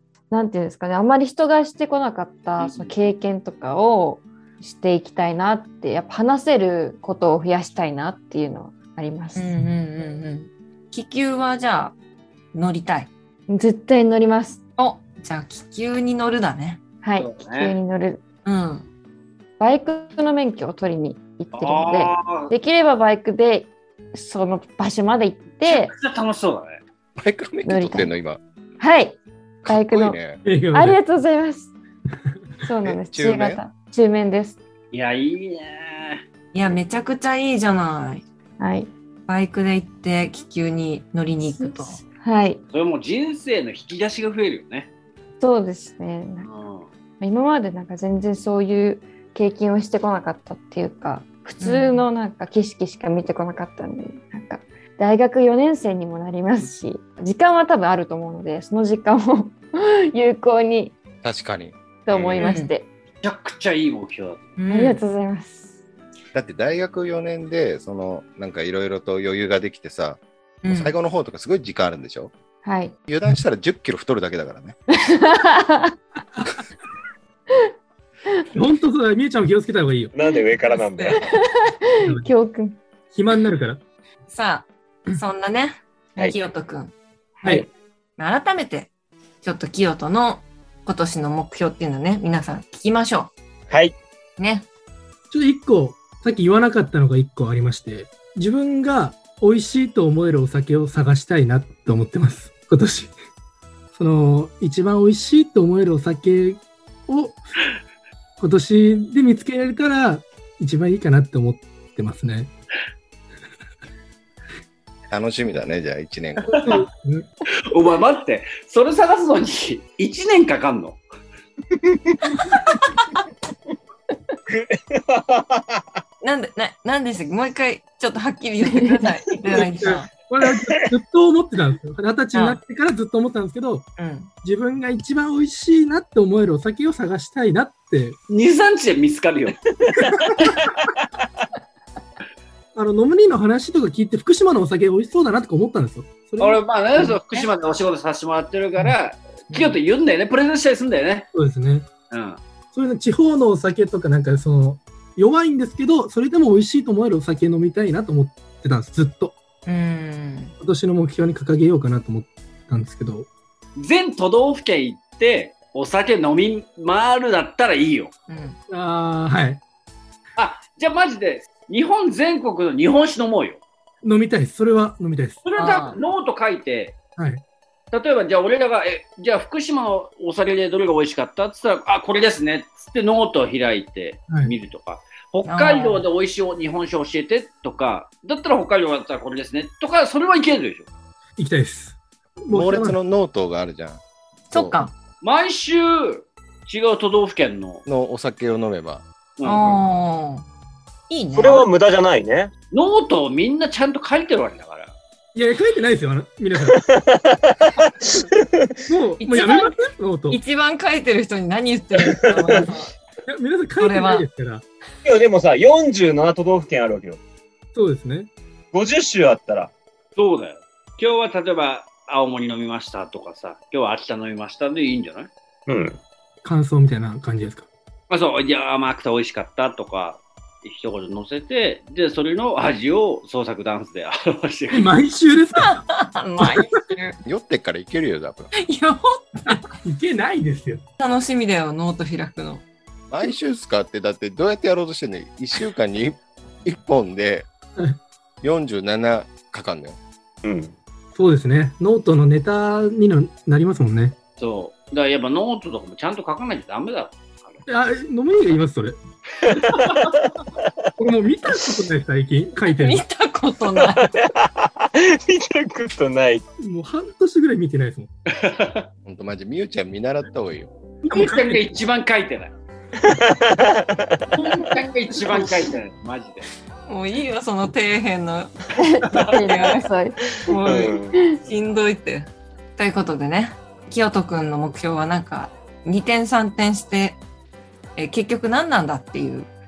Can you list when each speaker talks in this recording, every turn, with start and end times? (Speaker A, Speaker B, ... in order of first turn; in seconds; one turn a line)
Speaker A: 0.3-9.5
Speaker B: 2.6-2.9
Speaker C: 9.3-11.9
Speaker C: 12.5-13.1
Speaker A: 13.5-14.6
Speaker C: 14.8-16.8
Speaker A: 17.0-18.2
Speaker B: 17.2-17.8
Speaker C: 18.4-18.9
Speaker A: 19.6-25.9
Speaker B: 21.5-22.5
Speaker B: 25.6-26.8
Speaker D: 27.2-28.4
Speaker A: 27.6-28.1
Speaker A: 28.8-31.7
Speaker D: 29.6-30.4
Speaker E: 30.4-31.0
Speaker A: 32.6-34.6
Speaker D: 32.8-33.6
Speaker B: 34.9-36.2
Speaker C: 36.5-38.2
Speaker A: 38.6-38.9
Speaker C: 39.3-42.0
Speaker A: 41.6-42.6
Speaker B: 42.7-44.9
Speaker A: 45.4-46.5
Speaker B: 46.4-46.9
Speaker A: 47.2-61.0
Speaker C: 51.6-52.0
Speaker D: 61.2-61.8
Speaker A: 62.0-62.9
Speaker F: 62.1-62.4
Speaker C: 62.4-62.7
Speaker B: 63.2-64.6
Speaker C: 64.6-65.0
Speaker A: 64.7-65.8
Speaker D: 66.3-72.3
Speaker C: 70.6-70.9
Speaker A: 72.6-73.0
Speaker D: 73.1-74.7
Speaker A: 75.0-76.0
Speaker E: 78.5-80.1
Speaker F: 80.1-81.2
Speaker A: 81.2-82.8
Speaker E: 83.1-83.8
Speaker C: 84.3-86.9
Speaker C: 88.2-93.3
Speaker F: 93.7-94.0
Speaker C: 94.4-94.7
Speaker E: 95.3-103.1
Speaker E: 103.9-107.4
Speaker E: 108.4-112.5
Speaker D: 115.1-116.7
Speaker B: 116.5-116.9
Speaker E: 116.6-117.3
Speaker B: 117.7-121.0
Speaker F: 121.8-122.1
Speaker F: 124.5-125.8
Speaker C: 126.2-130.1
Speaker E: 129.6-133.9
Speaker F: 130.4-130.7
Speaker C: 132.3-132.6
Speaker C: 134.0-134.3
Speaker E: 134.4-138.2
Speaker B: 138.3-139.6
Speaker E: 140.1-140.5
Speaker E: 142.7-147.2
Speaker B: 146.4-151.3
Speaker C: 149.5-149.8
Speaker E: 151.3-151.9
Speaker B: 152.1-152.4
Speaker E: 152.7-159.3
Speaker C: 159.7-160.5
Speaker E: 160.6-163.3
Speaker B: 163.8-168.1
Speaker C: 168.3-168.6
Speaker E: 168.7-169.6
Speaker B: 170.4-173.6
Speaker E: 174.0-175.4
Speaker B: 175.4-177.0
Speaker C: 175.6-176.0
Speaker E: 177.2-177.4
Speaker B: 177.9-190.9
Speaker C: 185.4-186.0
Speaker E: 191.4-192.9
Speaker D: 192.5-194.0
Speaker C: 194.5-194.9
Speaker D: 194.5-194.8
Speaker B: 195.2-197.8
Speaker D: 197.9-199.0
Speaker B: 199.4-199.7
Speaker C: 199.4-200.4
Speaker C: 201.1-201.7
Speaker F: 201.3-202.5
Speaker B: 202.7-204.9
Speaker E: 205.3-206.8
Speaker F: 206.8-208.7
Speaker E: 208.9-210.4
Speaker C: 209.2-212.9
Speaker F: 212.1-212.3
Speaker E: 213.3-214.6
Speaker C: 213.8-214.3
Speaker F: 215.0-217.2
Speaker E: 217.7-218.3
Speaker F: 218.7-219.7
Speaker B: 220.2-225.3
Speaker F: 225.7-226.0
Speaker E: 226.4-227.7
Speaker B: 228.1-234.9
Speaker E: 234.7-235.9
Speaker C: 235.6-237.2
Speaker E: 236.4-236.7
Speaker D: 237.2-238.5
Speaker C: 238.6-239.7
Speaker E: 239.4-240.8
Speaker C: 241.0-242.6
Speaker D: 243.1-247.5
Speaker D: 248.4-250.0
Speaker F: 250.4-250.7
Speaker E: 251.1-254.2
Speaker B: 254.4-257.6
Speaker E: 257.7-259.0
Speaker F: 259.5-259.8
Speaker B: 259.8-260.1
Speaker E: 261.0-263.0
Speaker C: 262.7-264.2
Speaker F: 263.8-266.4
Speaker E: 266.6-268.1
Speaker B: 268.3-268.9
Speaker D: 269.1-270.7
Speaker B: 271.1-272.5
Speaker E: 271.1-271.6
Speaker F: 273.0-274.4
Speaker B: 274.3-276.4
Speaker C: 276.9-278.5
Speaker A: 278.8-281.4
Speaker C: 279.1-279.8
Speaker C: 280.4-287.2
Speaker F: 280.6-281.1
Speaker C: 287.9-289.5